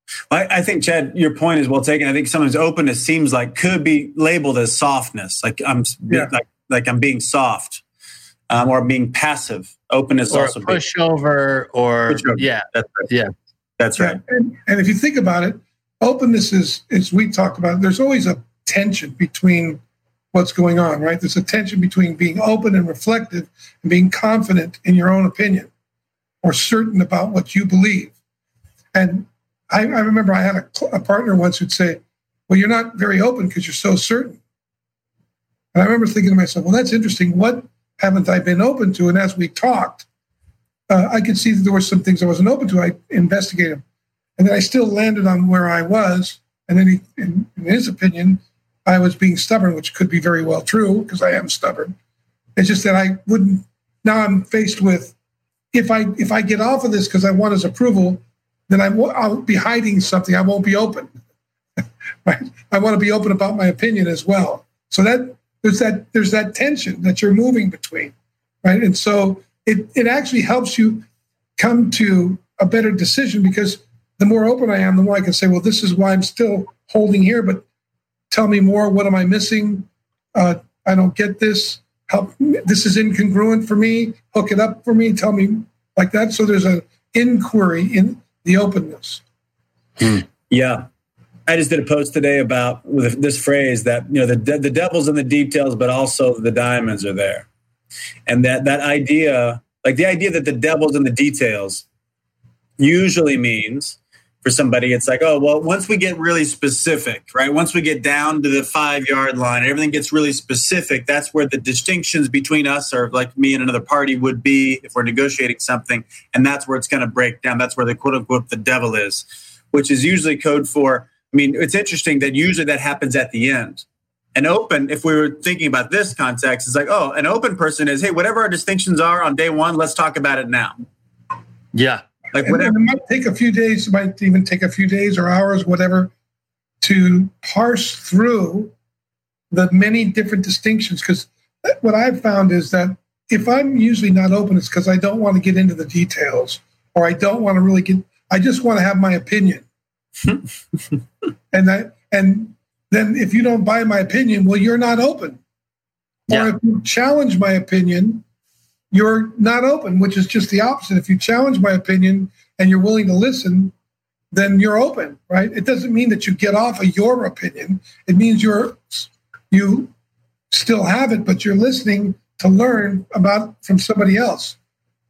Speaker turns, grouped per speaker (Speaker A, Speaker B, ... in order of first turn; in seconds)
Speaker A: 0.3-7.8, 8.5-10.8, 12.1-13.1, 13.8-14.2, 90.0-90.8, 91.5-97.5, 98.3-101.8, 102.8-130.7, 132.3-132.7
Speaker B: 10.3-13.3, 131.7-132.0
Speaker C: 14.0-19.8, 20.3-25.7, 26.4-28.1, 28.9-34.4, 35.7-40.1, 40.9-43.8, 44.4-51.9, 52.5-55.1, 55.7-61.1, 62.2-68.1, 68.6-71.0, 71.6-77.6, 78.3-89.2, 132.4-136.1, 136.8-138.7, 139.5-149.6, 151.5-155.4, 156.3-158.2, 158.9-163.7, 164.3-169.9, 170.5-174.6